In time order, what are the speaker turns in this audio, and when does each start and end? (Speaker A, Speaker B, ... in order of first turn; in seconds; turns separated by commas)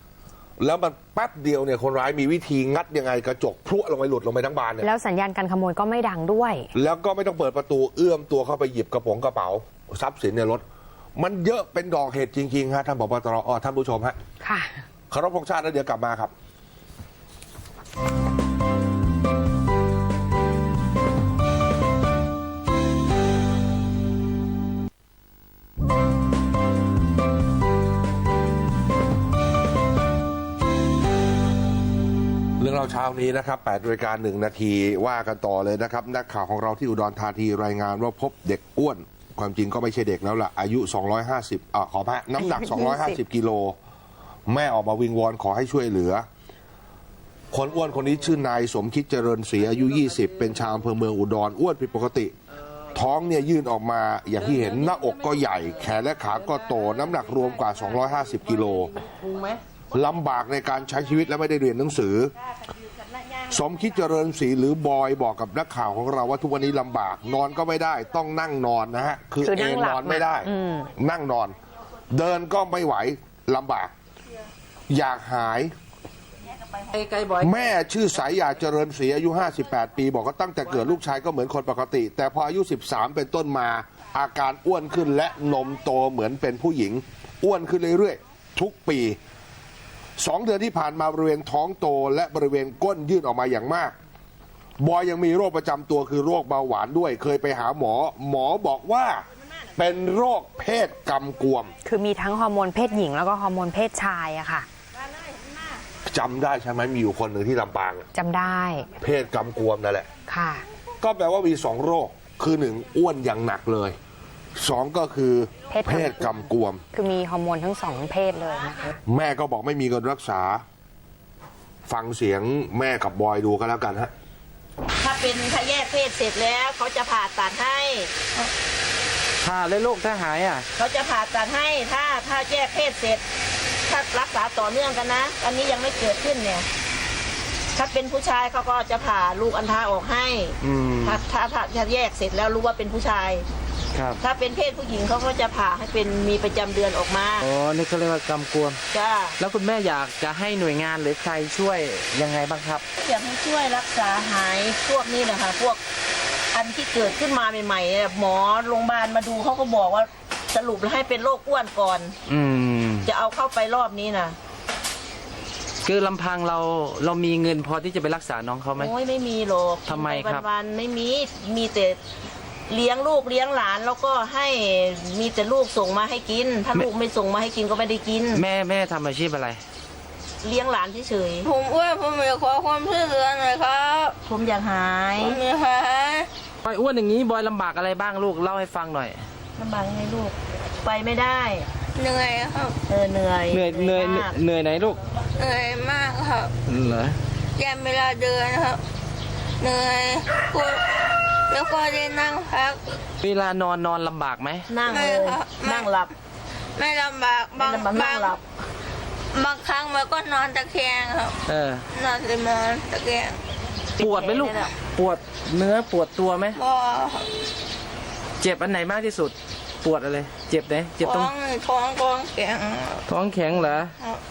Speaker A: 0.6-4.9, Speaker B: 4.8-6.7, Speaker A: 6.7-10.6, Speaker A: 11.2-14.2, Speaker B: 14.4-14.8, Speaker A: 15.1-16.3, Speaker A: 32.6-43.8, Speaker B: 42.4-43.2, Speaker A: 44.5-46.2, Speaker A: 47.5-52.3, Speaker C: 49.8-50.5, Speaker A: 52.9-58.9, Speaker C: 54.4-59.6, Speaker A: 59.9-62.3, Speaker A: 63.5-71.6, Speaker B: 69.4-70.9, Speaker A: 72.1-73.9, Speaker A: 74.9-75.7, Speaker C: 76.9-77.5, Speaker A: 77.4-89.2, Speaker A: 90.2-93.9, Speaker A: 94.8-99.2, Speaker A: 99.8-101.7, Speaker B: 101.8-104.7, Speaker A: 106.0-108.1, Speaker B: 108.1-108.9, Speaker A: 109.0-110.1, Speaker B: 110.3-110.6, Speaker A: 111.0-114.0, Speaker A: 114.5-116.8, Speaker B: 115.7-118.9, Speaker A: 119.0-120.6, Speaker A: 121.9-124.1, Speaker D: 125.0-128.1, Speaker C: 129.4-130.7, Speaker D: 130.7-133.2, Speaker D: 133.9-136.7, Speaker D: 137.7-143.4, Speaker C: 140.6-141.2, Speaker C: 143.9-144.2, Speaker D: 144.2-147.4, Speaker C: 147.4-148.8, Speaker D: 148.9-149.4, Speaker C: 149.4-152.8, Speaker D: 153.0-155.8, Speaker D: 156.5-162.1, Speaker C: 162.3-163.1, Speaker D: 163.1-164.4, Speaker C: 165.8-168.9, Speaker D: 168.8-172.0, Speaker C: 169.9-170.5, Speaker D: 172.7-178.4, Speaker C: 178.3-179.6, Speaker D: 180.4-181.5, Speaker E: 181.4-184.2, Speaker D: 184.2-185.4, Speaker E: 185.2-186.3, Speaker C: 186.6-189.2, Speaker D: 189.6-191.7, Speaker E: 191.9-192.8, Speaker D: 192.9-194.4, Speaker C: 193.5-195.0, Speaker E: 195.3-196.5, Speaker C: 196.7-197.2, Speaker E: 197.6-198.8, Speaker E: 199.6-202.9, Speaker C: 203.2-204.7, Speaker D: 204.7-206.1, Speaker E: 204.8-205.9, Speaker E: 206.8-208.3, Speaker D: 207.6-208.4, Speaker E: 209.3-213.4, Speaker C: 211.5-211.8, Speaker D: 214.0-214.8, Speaker C: 214.0-216.6, Speaker E: 216.5-217.3, Speaker C: 218.4-221.3, Speaker E: 221.0-223.0, Speaker C: 223.1-223.9, Speaker E: 223.9-224.2